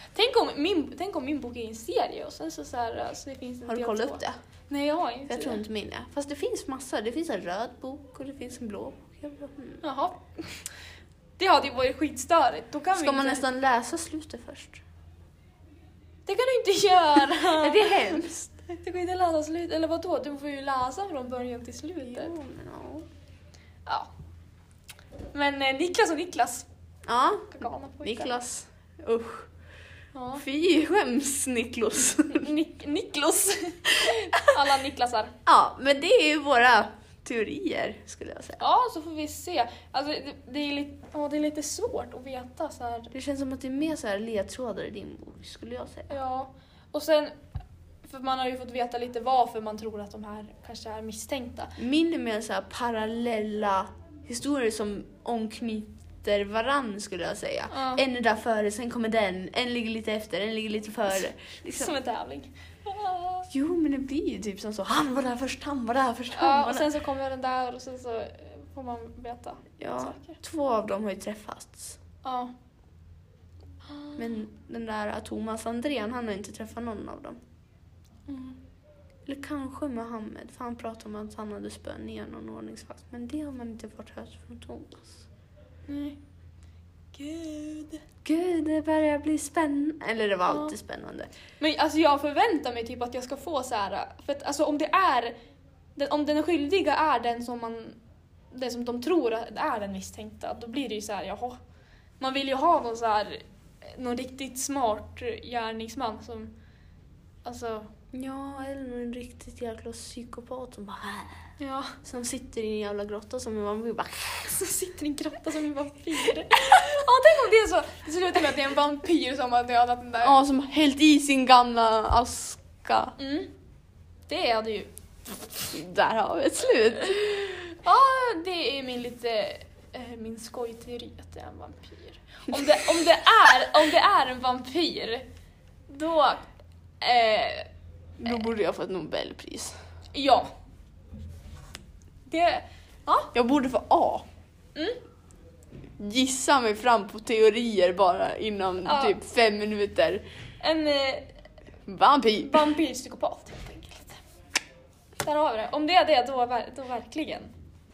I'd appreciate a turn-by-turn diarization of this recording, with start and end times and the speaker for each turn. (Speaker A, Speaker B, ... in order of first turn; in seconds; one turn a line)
Speaker A: 0.1-5.6
Speaker B: 3.6-4.3
Speaker B: 5.3-9.8
Speaker A: 9.8-10.6
Speaker A: 11.4-13.4
Speaker B: 12.9-14.8
Speaker A: 16.2-22.3
Speaker B: 17.4-18.5
Speaker B: 22.1-23.1
Speaker A: 25.3-26.7
Speaker B: 27.1-29.5
Speaker A: 27.5-28.3
Speaker A: 30.1-30.4
Speaker B: 30.4-32.5
Speaker A: 32.3-35.3
Speaker B: 35.5-38.6
Speaker A: 38.6-43.1
Speaker B: 43.1-46.1
Speaker A: 46.1-47.4
Speaker A: 48.0-51.7
Speaker B: 51.8-61.9
Speaker A: 57.7-58.0
Speaker A: 61.7-63.5
Speaker B: 63.5-66.9
Speaker A: 66.3-70.4
Speaker B: 69.8-72.0
Speaker A: 72.2-72.5
Speaker A: 73.9-74.2
Speaker B: 74.2-77.4
Speaker A: 78.3-78.6
Speaker B: 79.2-85.2
Speaker A: 85.9-86.2
Speaker A: 87.1-88.0
Speaker B: 88.2-91.3
Speaker A: 90.5-90.7
Speaker A: 91.6-95.3
Speaker A: 96.0-98.0
Speaker A: 98.5-101.6
Speaker A: 102.2-106.5
Speaker A: 107.4-107.9
Speaker B: 108.1-111.5
Speaker A: 111.6-112.0
Speaker B: 112.0-114.5
Speaker A: 114.5-120.4
Speaker B: 120.2-123.1
Speaker A: 123.2-123.5
Speaker A: 124.3-124.9
Speaker B: 125.7-127.6
Speaker A: 127.7-135.2
Speaker A: 135.9-136.4
Speaker A: 137.0-137.7
Speaker B: 138.2-139.8
Speaker A: 140.1-140.5
Speaker A: 142.3-143.3
Speaker B: 143.3-144.2
Speaker B: 146.0-150.2
Speaker A: 148.8-149.2
Speaker A: 150.6-151.3
Speaker B: 151.8-152.6
Speaker A: 152.3-154.2
Speaker A: 155.2-157.5